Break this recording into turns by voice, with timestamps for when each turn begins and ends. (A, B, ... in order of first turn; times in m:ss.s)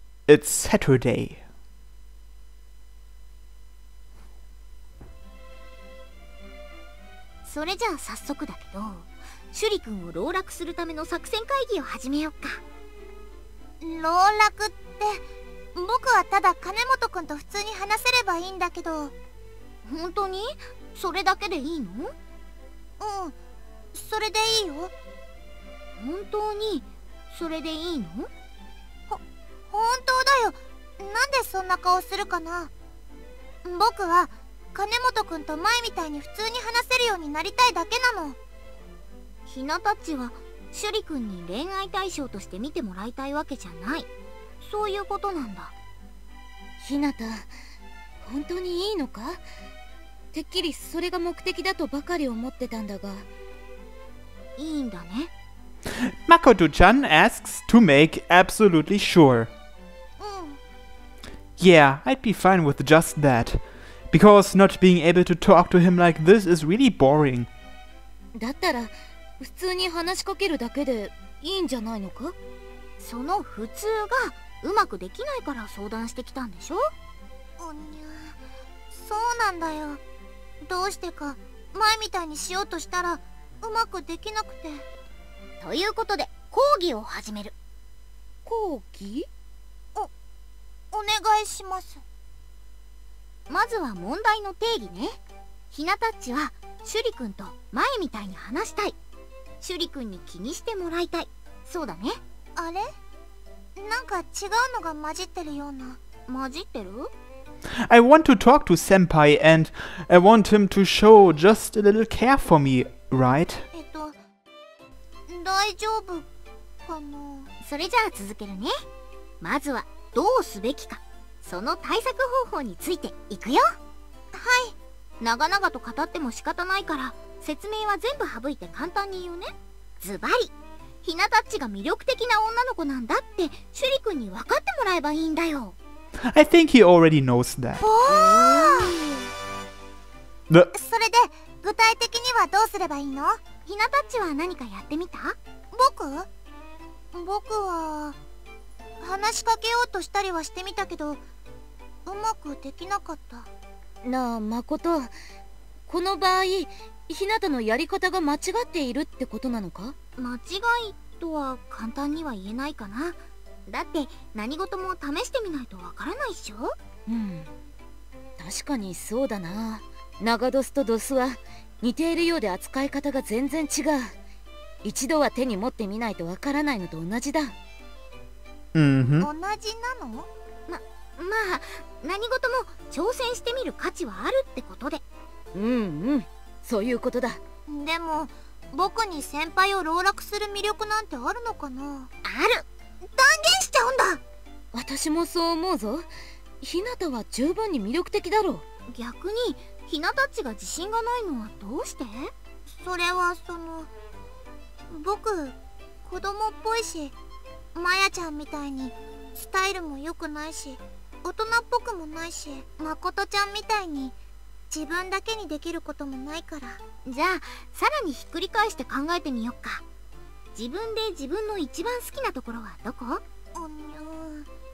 0:00.3-0:01.4 A
0:07.4-0:12.6 B
0:13.8-0:15.2 C
0:15.7-0:19.1 C
0:19.8-0:22.1 B
0:23.0-0:23.4 C
0:23.9-0:24.9 C
0:26.0-0:28.3 B
0:29.1-0:32.7 C
0:33.6-0:38.4 C
0:39.5-0:44.1 B
0:44.6-0:45.7 B
0:46.8-0:47.5 D
0:48.2-0:49.4 D
0:50.3-0:53.3 D
0:54.6-0:55.3 B
0:56.0-0:59.5 A
1:00.2-1:00.6 C
1:01.6-1:07.5 A
1:08.4-1:12.4 D
1:13.0-1:16.8 B
1:17.6-1:18.4 C
1:18.9-1:20.0 C
1:20.6-1:24.8 C
1:25.6-1:27.5 B
1:28.4-1:29.3 D
1:30.9-1:32.0 C
1:33.5-1:35.2 B
1:35.7-1:39.0 B
1:39.6-1:42.2 B
1:42.6-1:42.9 C
1:43.8-1:46.0 C
1:46.3-1:47.1 B
1:47.9-1:53.7 A
1:53.7-1:54.2 C
1:55.3-1:56.2 C
1:56.8-1:57.5 C
1:57.6-1:58.7 B
1:59.4-2:03.7 B
2:04.3-2:04.7 C
2:05.2-2:15.8 B
2:16.3-2:17.8 A
2:17.8-2:19.0 C
2:18.4-2:18.9 B
2:20.7-2:23.4 C
2:23.6-2:25.4 B
2:25.7-2:26.3 C
2:27.1-2:28.2 C
2:29.0-2:31.2 C
2:32.0-2:33.5 C
2:34.0-2:35.1 D
2:35.9-2:39.9 D
2:40.2-2:46.7 B
2:47.1-2:47.5 D
2:48.4-2:54.1 D
2:54.8-2:57.5 D
2:58.7-2:59.3 A
2:59.2-3:00.3 C
3:00.7-3:05.0 B
3:05.5-3:07.4 D
3:07.7-3:12.1 C
3:12.2-3:12.6 B
3:13.2-3:14.2 C
3:14.7-3:16.1 D
3:16.6-3:18.6 D
3:18.9-3:22.3 B
3:22.8-3:23.9 C
3:24.9-3:27.1 C
3:27.7-3:34.1 C
3:34.7-3:36.8 C
3:37.0-3:39.8 B
3:40.5-3:43.2 B
3:43.5-3:44.5 C